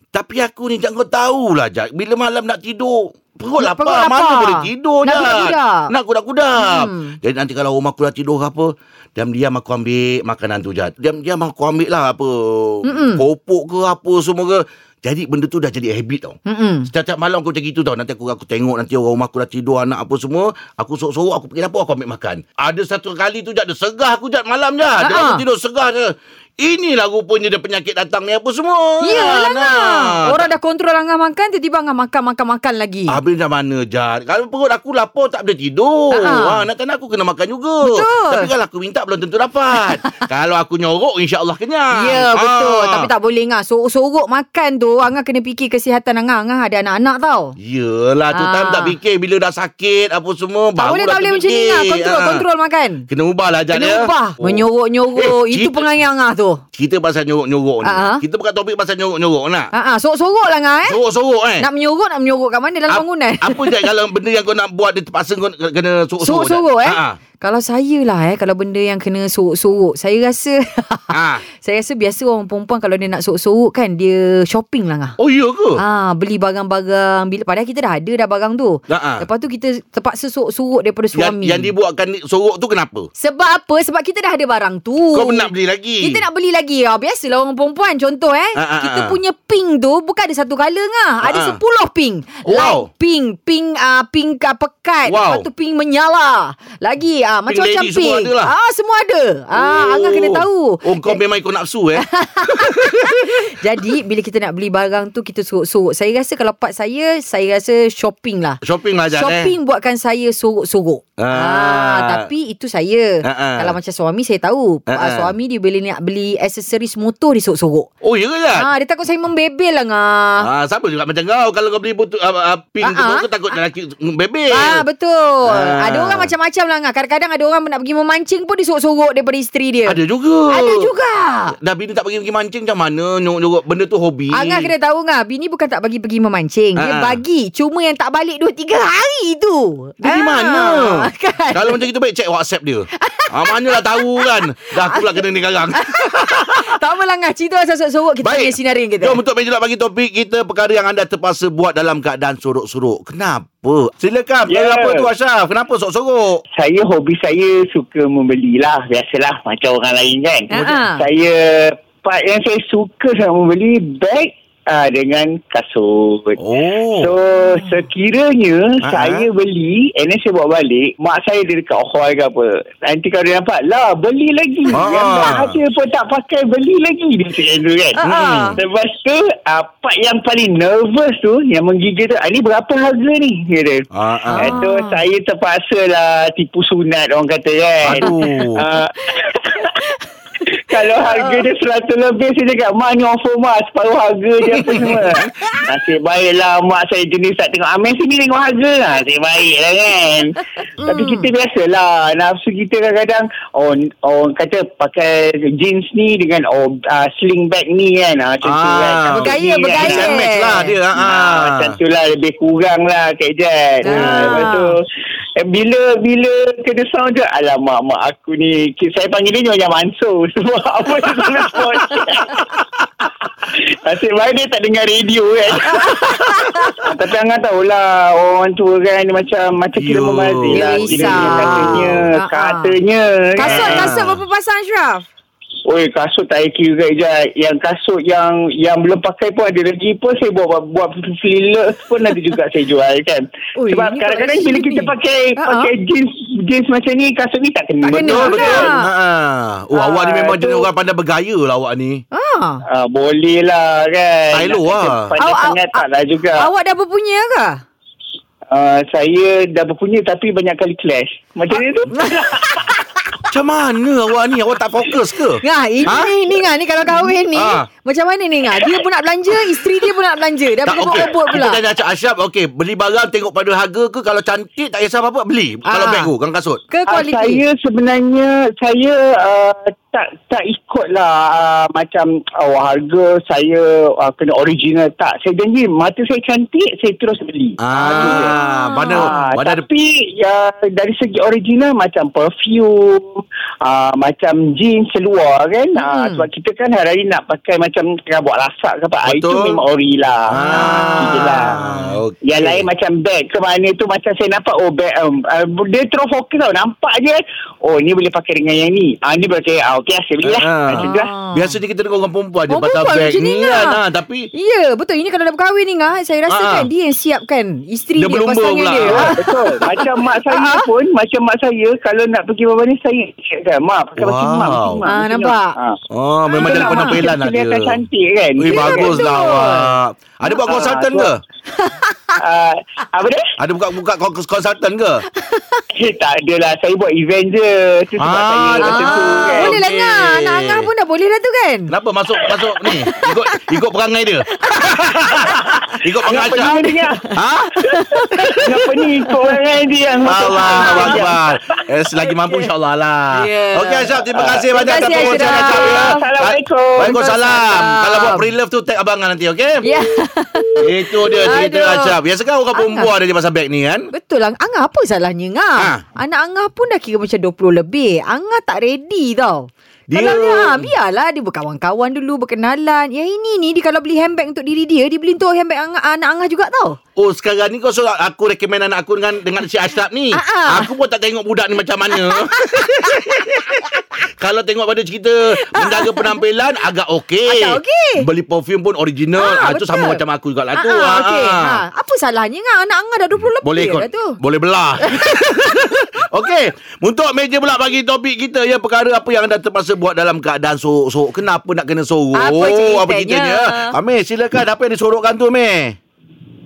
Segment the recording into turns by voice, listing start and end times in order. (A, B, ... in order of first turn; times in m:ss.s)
0:00.1-0:16.4 A
0:03.6-0:05.9 B
0:06.6-0:07.2 B
0:12.8-0:13.2 B
0:16.5-0:16.9 B
0:16.9-0:30.5 A
0:25.0-0:25.4 B
0:29.0-0:33.2 B
0:33.1-0:43.1 A
0:36.1-0:36.6 B
0:37.8-0:38.5 B
0:41.9-0:47.6 B
0:47.6-0:52.4 A
0:48.3-0:48.9 B
0:50.8-0:53.0 B
0:53.1-0:55.8 A
0:53.7-0:56.6 B
0:56.7-0:59.7 A
0:57.8-0:58.2 B
0:59.7-1:01.0 B
1:00.9-1:01.7 A
1:01.6-1:03.9 B
1:02.9-1:07.2 A
1:06.2-1:15.2 B
1:11.1-1:11.4 A
1:15.2-1:15.8 A
1:15.8-1:21.7 B
1:18.9-1:19.2 A
1:21.1-1:23.1 A
1:23.2-1:25.5 B
1:25.1-1:26.2 A
1:26.0-1:41.2 B
1:28.6-1:29.1 A
1:31.2-1:31.6 A
1:32.4-1:32.8 A
1:35.1-1:35.5 A
1:37.5-1:38.5 A
1:39.6-1:43.5 A
1:42.0-1:48.6 B
1:48.6-1:49.5 A
1:49.1-1:57.9 B
1:51.2-1:52.2 A
1:53.2-1:53.7 A
1:54.9-1:55.3 A
1:58.0-1:58.7 A
1:58.6-2:00.5 B
2:00.4-2:04.8 A
2:02.8-2:03.3 B
2:04.5-2:10.0 B
2:05.4-2:06.3 A
2:09.8-2:10.9 A
2:10.5-2:11.5 B
2:11.6-2:14.7 A
2:14.3-2:21.8 B
2:16.8-2:17.2 A
2:20.0-2:26.7 A
2:23.0-2:25.2 B
2:25.8-2:29.2 B
2:28.2-2:36.4 A
2:34.5-2:35.1 C
2:36.6-2:46.4 C
2:40.5-2:41.0 B
2:46.4-2:47.1 A
2:46.9-2:58.0 C
2:48.8-2:49.3 A
2:54.7-2:55.6 A
2:58.0-2:58.6 B
2:58.0-2:58.5 A
2:58.6-3:09.7 C
3:03.9-3:04.6 A
3:04.3-3:05.0 B
3:07.8-3:08.6 A
3:10.5-3:30.2 C
3:10.8-3:11.4 B
3:14.6-3:15.3 A
3:20.8-3:21.3 B
3:28.4-3:31.8 A
3:29.1-3:30.7 B
3:30.9-3:34.8 C
3:33.8-3:34.7 B
3:33.9-3:34.5 A
3:35.4-3:42.6 C
3:43.5-3:46.1 C
3:45.6-3:46.9 B
3:46.8-3:54.0 C
3:49.7-3:52.1 A
3:50.5-3:52.8 B
3:53.4-3:55.0 B
3:53.4-3:54.2 A
3:55.6-4:08.8 C
4:03.6-4:05.7 B
4:07.8-4:08.8 B
4:07.9-4:12.0 A
4:09.7-4:10.7 C
4:12.1-4:12.6 B
4:12.7-4:16.5 C
4:14.3-4:15.1 A
4:15.2-4:15.8 B
4:16.4-4:17.6 B
4:18.5-4:22.7 C
4:21.9-4:23.0 B
4:23.3-4:26.1 A
4:25.4-4:31.6 B
4:27.3-4:27.6 A
4:30.6-4:36.6 A
4:35.7-4:36.1 B
4:36.7-4:37.4 B
4:36.9-5:01.6 C
4:47.6-4:49.6 A
4:47.8-4:49.2 B
4:55.8-4:56.3 B
4:59.1-4:59.6 A
5:00.3-5:02.6 A
5:00.4-5:01.5 B
5:02.2-5:11.1 C
5:10.2-5:14.3 A
5:10.7-5:11.5 B
5:12.5-5:13.8 B
5:14.3-5:20.7 B
5:16.3-5:16.7 A
5:18.0-5:19.3 A
5:18.8-5:25.8 C
5:24.0-5:24.8 A
5:24.8-5:25.5 B
5:25.9-5:27.8 A
5:26.3-5:29.1 C
5:26.3-5:27.0 B
5:28.4-5:31.2 A
5:28.5-5:29.7 B
5:30.3-5:31.1 C
5:31.6-5:32.2 B
5:32.2-5:33.3 C
5:33.4-5:35.0 A
5:35.2-5:35.6 B
5:35.7-5:39.6 C
5:38.0-5:40.7 A
5:38.6-5:43.5 B
5:41.7-5:47.6 A
5:44.4-5:47.0 B
5:46.0-5:47.1 C
5:47.6-5:48.4 B
5:48.4-5:51.3 C
5:50.0-5:59.6 A
5:50.3-5:51.1 B
5:52.0-5:52.5 B
5:53.1-5:53.9 B
5:54.1-5:57.4 C
5:54.5-5:56.0 B
5:56.8-5:58.3 B
5:59.6-6:02.0 B
6:00.6-6:03.9 A
6:02.5-6:02.9 B
6:03.9-6:16.8 B
6:09.9-6:10.7 A
6:17.0-6:31.6 A
6:20.1-6:20.7 B
6:22.0-6:23.6 B
6:25.4-6:26.1 B
6:27.3-6:28.0 B
6:29.2-6:30.0 B
6:30.5-6:34.2 B
6:33.4-6:45.8 A
6:34.8-6:35.6 B
6:42.1-6:43.8 B